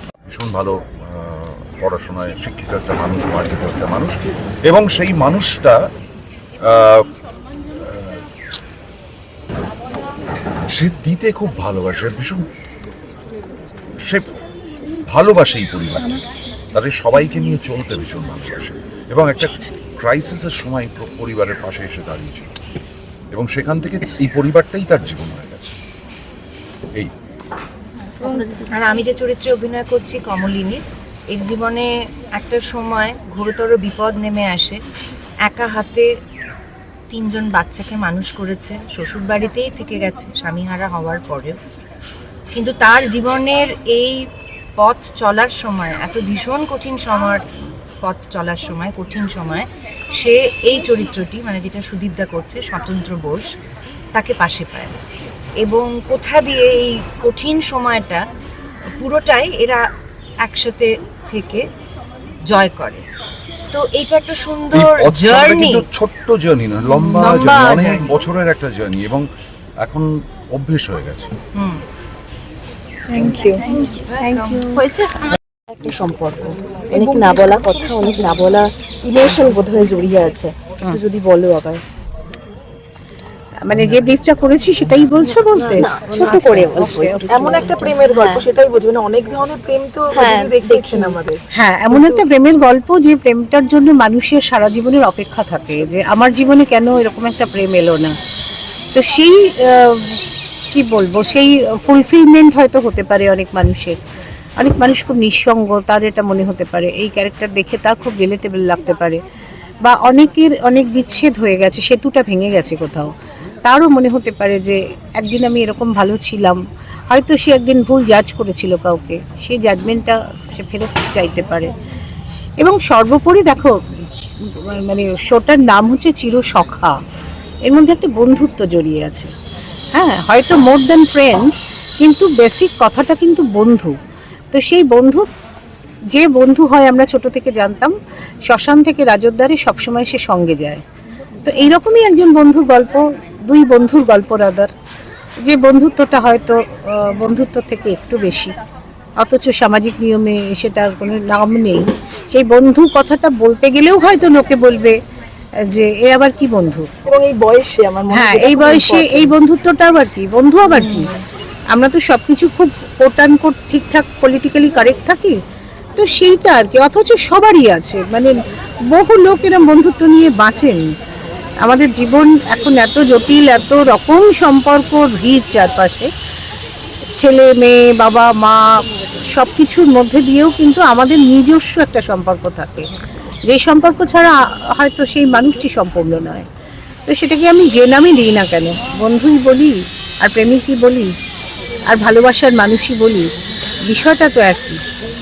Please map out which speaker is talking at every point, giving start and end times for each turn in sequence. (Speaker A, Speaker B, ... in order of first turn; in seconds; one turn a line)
Speaker A: 0.2-5.8
Speaker A: 6.7-7.1
Speaker A: 7.8-8.2
Speaker A: 10.7-12.4
Speaker A: 14.0-14.3
Speaker A: 15.1-16.2
Speaker A: 16.7-22.5
Speaker A: 23.3-25.8
Speaker B: 28.7-30.8
Speaker B: 31.3-34.8
Speaker B: 35.4-36.1
Speaker B: 37.1-41.6
Speaker B: 42.5-44.3
Speaker B: 44.8-47.4
Speaker B: 48.0-53.5
Speaker B: 54.1-55.0
Speaker B: 55.6-58.2
Speaker B: 59.0-59.8
Speaker B: 60.4-61.6
Speaker B: 62.5-63.0
Speaker B: 63.7-65.8
Speaker A: 64.7-69.3
Speaker B: 66.9-68.1
Speaker C: 67.2-67.6
Speaker A: 69.8-71.3
Speaker B: 71.5-71.8
Speaker D: 73.1-73.6
Speaker B: 73.7-75.0
Speaker C: 74.3-75.0
Speaker C: 75.8-81.8
Speaker D: 76.9-78.4
Speaker E: 83.6-87.7
Speaker C: 85.5-88.5
Speaker D: 86.1-86.4
Speaker D: 87.3-91.4
Speaker C: 90.1-91.2
Speaker E: 91.5-98.2
Speaker D: 91.9-92.2
Speaker E: 98.9-104.0
Speaker E: 104.6-109.2
Speaker E: 109.8-113.1
Speaker E: 113.6-116.6
Speaker E: 117.1-121.7
Speaker E: 122.6-127.0
Speaker E: 127.7-129.3
Speaker E: 129.9-133.9
Speaker E: 134.5-135.3
Speaker E: 136.1-137.9
Speaker E: 138.5-140.8
Speaker E: 141.5-144.7
Speaker E: 145.4-148.5
Speaker E: 149.2-155.0
Speaker E: 155.7-156.9
Speaker D: 157.1-159.4
Speaker E: 158.1-161.1
Speaker D: 160.7-161.1
Speaker E: 161.7-165.3
Speaker E: 166.0-168.3
Speaker E: 168.9-170.8
Speaker E: 171.6-176.1
Speaker E: 177.2-182.8
Speaker E: 183.5-186.4
Speaker E: 187.1-191.1
Speaker E: 191.9-193.3
Speaker E: 193.9-194.8